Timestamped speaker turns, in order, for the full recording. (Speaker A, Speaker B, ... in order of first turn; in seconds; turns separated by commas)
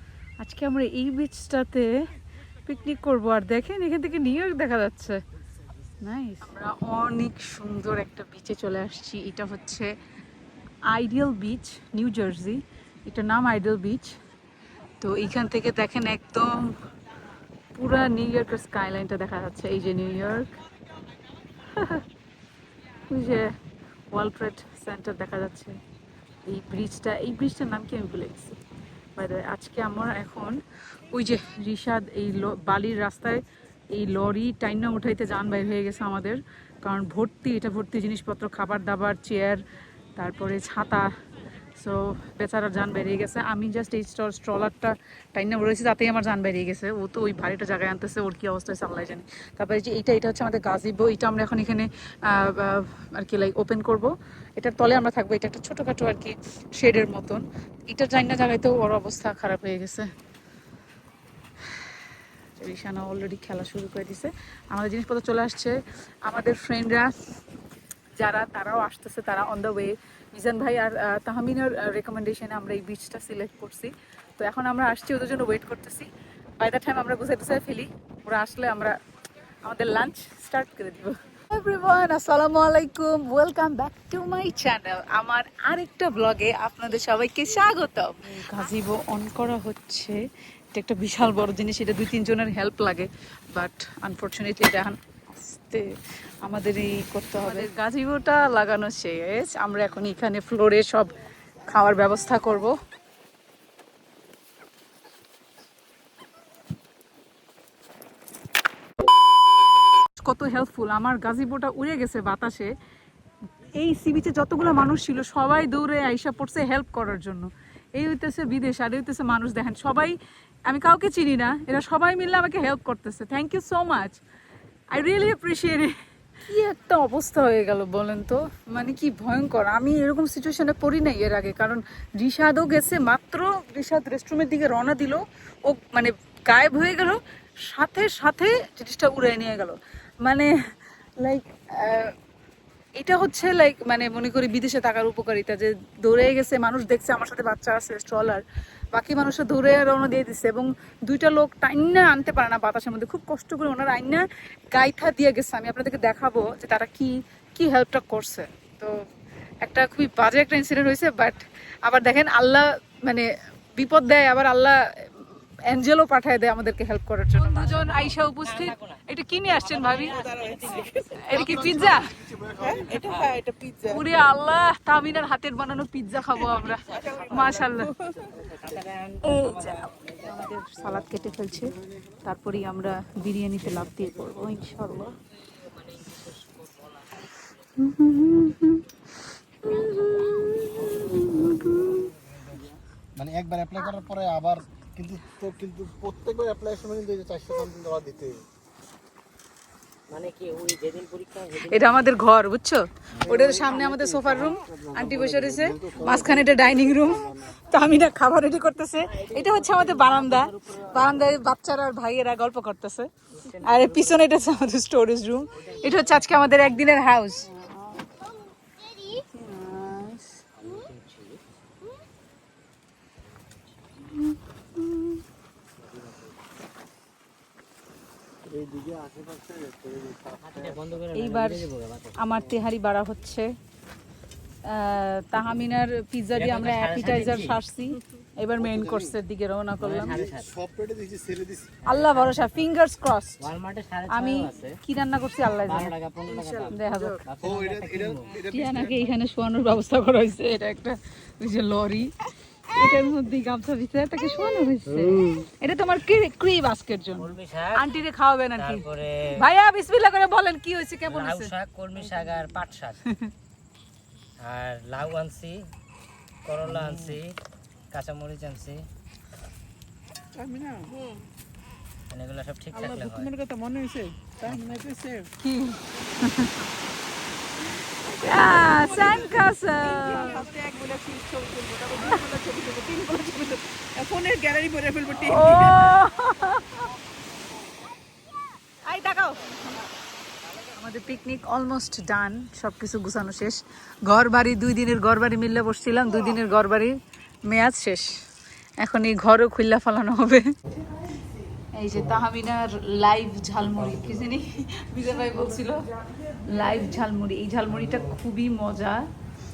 Speaker A: 0.4-1.9, Speaker A: 2.6-5.2, Speaker A: 6.0-9.9, Speaker A: 10.9-14.2, Speaker A: 15.0-16.7, Speaker A: 17.7-20.5, Speaker A: 21.7-22.0, Speaker A: 23.1-23.5, Speaker A: 24.1-25.8, Speaker A: 26.4-28.6, Speaker A: 29.1-39.6, Speaker A: 40.1-41.1, Speaker A: 41.8-60.1, Speaker A: 62.6-67.1, Speaker A: 68.2-79.0, Speaker A: 79.6-95.9, Speaker A: 96.4-102.8, Speaker A: 110.2-112.7, Speaker A: 113.8-124.2, Speaker A: 124.9-140.5, Speaker A: 141.2-142.1, Speaker A: 143.0-158.9, Speaker A: 159.6-170.2, Speaker B: 167.5-169.0, Speaker B: 169.6-171.7, Speaker C: 170.0-174.0, Speaker A: 171.2-172.1, Speaker D: 171.9-172.9, Speaker B: 173.0-173.3, Speaker A: 173.8-177.9, Speaker C: 176.3-178.4, Speaker B: 178.3-180.3, Speaker A: 179.2-185.2, Speaker B: 185.7-187.1, Speaker A: 187.8-188.8, Speaker A: 189.6-192.1, Speaker B: 189.8-191.5, Speaker D: 193.2-198.4, Speaker B: 200.1-202.1, Speaker A: 201.6-218.1, Speaker D: 203.2-207.6, Speaker B: 209.1-211.1, Speaker B: 213.4-214.2, Speaker B: 215.6-216.7, Speaker A: 219.2-220.4, Speaker B: 220.6-221.4, Speaker A: 224.1-225.2, Speaker D: 228.5-230.8, Speaker B: 230.4-232.2, Speaker A: 231.1-233.5, Speaker A: 234.7-240.2, Speaker B: 236.3-237.6, Speaker B: 239.8-240.6, Speaker D: 240.3-241.8, Speaker B: 241.8-242.6, Speaker A: 241.8-243.4, Speaker B: 243.4-244.8, Speaker A: 244.1-245.9, Speaker B: 245.7-248.4, Speaker C: 246.2-247.2, Speaker A: 246.7-247.2, Speaker D: 247.4-249.0, Speaker A: 248.4-252.1, Speaker A: 252.7-261.5, Speaker B: 254.9-255.5, Speaker B: 257.1-257.8, Speaker B: 258.6-259.4, Speaker B: 261.1-263.0, Speaker B: 264.4-265.6, Speaker B: 266.4-267.4, Speaker B: 267.9-268.8, Speaker C: 270.5-271.2, Speaker B: 272.1-273.4, Speaker D: 273.5-273.9, Speaker B: 274.4-274.9, Speaker A: 275.4-276.6, Speaker C: 277.8-286.0, Speaker A: 278.2-280.4, Speaker A: 285.2-286.8, Speaker A: 288.9-289.6, Speaker A: 290.7-296.9, Speaker A: 297.5-298.1, Speaker A: 298.8-300.5, Speaker A: 301.7-305.9, Speaker C: 305.0-307.0, Speaker A: 306.5-309.0